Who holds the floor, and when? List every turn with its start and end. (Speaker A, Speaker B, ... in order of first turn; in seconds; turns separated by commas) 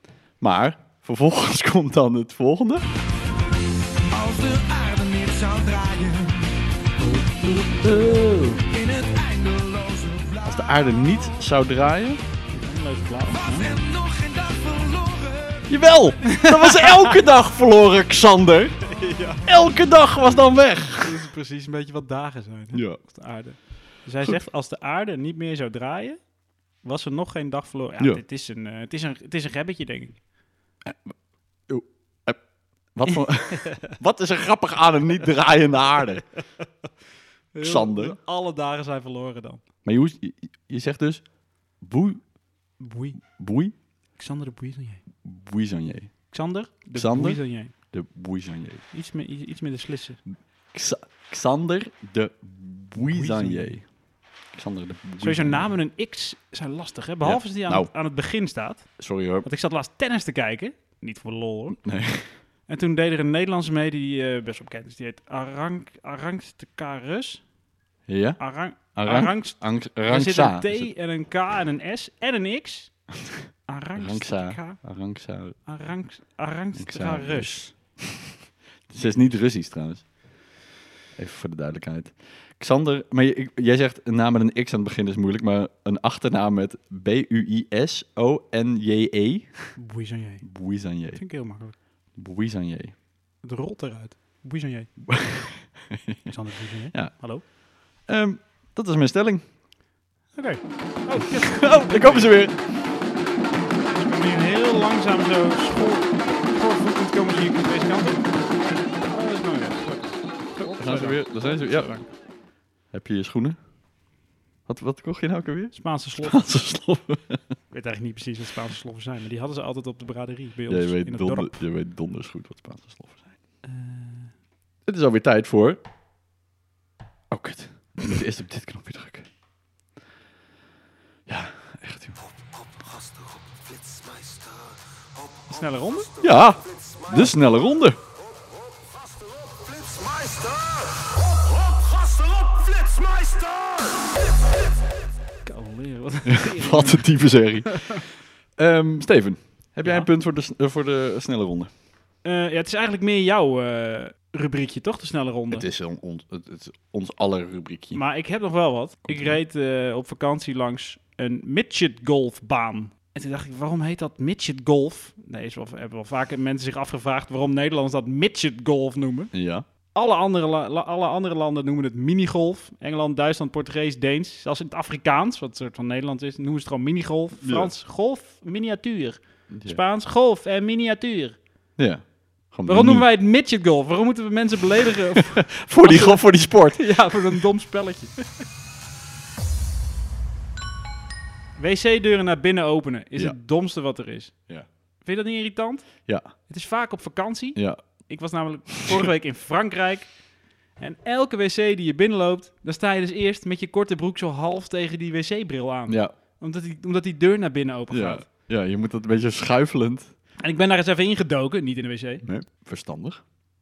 Speaker A: 0.4-2.8, Speaker B: 4.1-6.5, Speaker A: 7.0-8.7, Speaker B: 8.7-11.2, Speaker A: 10.4-12.2, Speaker C: 12.5-13.8, Speaker B: 13.3-15.7, Speaker A: 15.7-18.8, Speaker C: 16.2-17.2, Speaker C: 18.8-19.5, Speaker A: 19.4-21.2, Speaker C: 21.0-26.2, Speaker A: 22.7-23.0, Speaker C: 26.8-30.2, Speaker A: 30.8-31.1, Speaker A: 31.7-32.4, Speaker A: 32.9-36.3, Speaker C: 37.5-39.6, Speaker A: 37.6-38.2, Speaker A: 39.8-41.2, Speaker A: 41.8-42.2, Speaker C: 42.8-43.2, Speaker A: 43.2-43.8, Speaker C: 44.2-45.0, Speaker A: 45.2-46.1, Speaker C: 46.3-47.7, Speaker A: 46.9-48.8, Speaker C: 48.9-50.2, Speaker A: 50.7-53.9, Speaker C: 53.0-53.8, Speaker A: 54.5-55.7, Speaker C: 55.2-58.9, Speaker A: 57.2-57.9, Speaker A: 59.0-59.5, Speaker C: 59.4-61.8, Speaker A: 61.8-62.4, Speaker C: 62.7-67.4, Speaker A: 68.1-68.4, Speaker C: 68.4-72.9, Speaker A: 69.0-70.9, Speaker C: 73.7-74.8, Speaker A: 74.0-75.6, Speaker C: 75.7-77.6, Speaker A: 76.8-78.4, Speaker A: 78.9-80.1, Speaker C: 79.0-79.3, Speaker A: 81.2-89.8, Speaker C: 89.8-91.8, Speaker A: 90.5-91.2, Speaker A: 92.2-93.0, Speaker C: 93.4-94.9, Speaker A: 95.1-96.3, Speaker C: 96.3-97.4, Speaker A: 98.0-99.4, Speaker C: 100.3-102.4, Speaker A: 101.2-102.6, Speaker C: 103.9-108.2, Speaker C: 109.1-112.1, Speaker A: 110.7-112.0, Speaker A: 112.9-113.6, Speaker A: 114.7-117.4, Speaker C: 115.7-116.5, Speaker C: 117.7-121.6, Speaker A: 120.7-123.3, Speaker C: 123.6-124.3, Speaker A: 124.9-125.8, Speaker A: 127.3-129.3, Speaker A: 131.3-132.2, Speaker C: 135.5-136.1, Speaker A: 136.2-138.0, Speaker B: 140.0-140.5, Speaker B: 141.9-143.9, Speaker C: 145.4-148.0, Speaker A: 146.3-151.7, Speaker C: 149.8-150.1, Speaker C: 152.2-155.7, Speaker A: 155.5-158.0, Speaker C: 157.9-169.3, Speaker A: 159.1-159.4, Speaker A: 169.3-169.7, Speaker C: 169.9-181.4, Speaker A: 177.4-177.7, Speaker A: 179.5-179.8, Speaker A: 181.8-183.1, Speaker C: 182.7-188.2, Speaker A: 185.2-187.4, Speaker C: 191.6-194.5, Speaker C: 195.0-200.2, Speaker A: 197.6-197.8, Speaker C: 200.8-208.3, Speaker A: 205.9-206.2, Speaker A: 207.9-210.1, Speaker C: 210.4-212.2, Speaker A: 212.2-213.2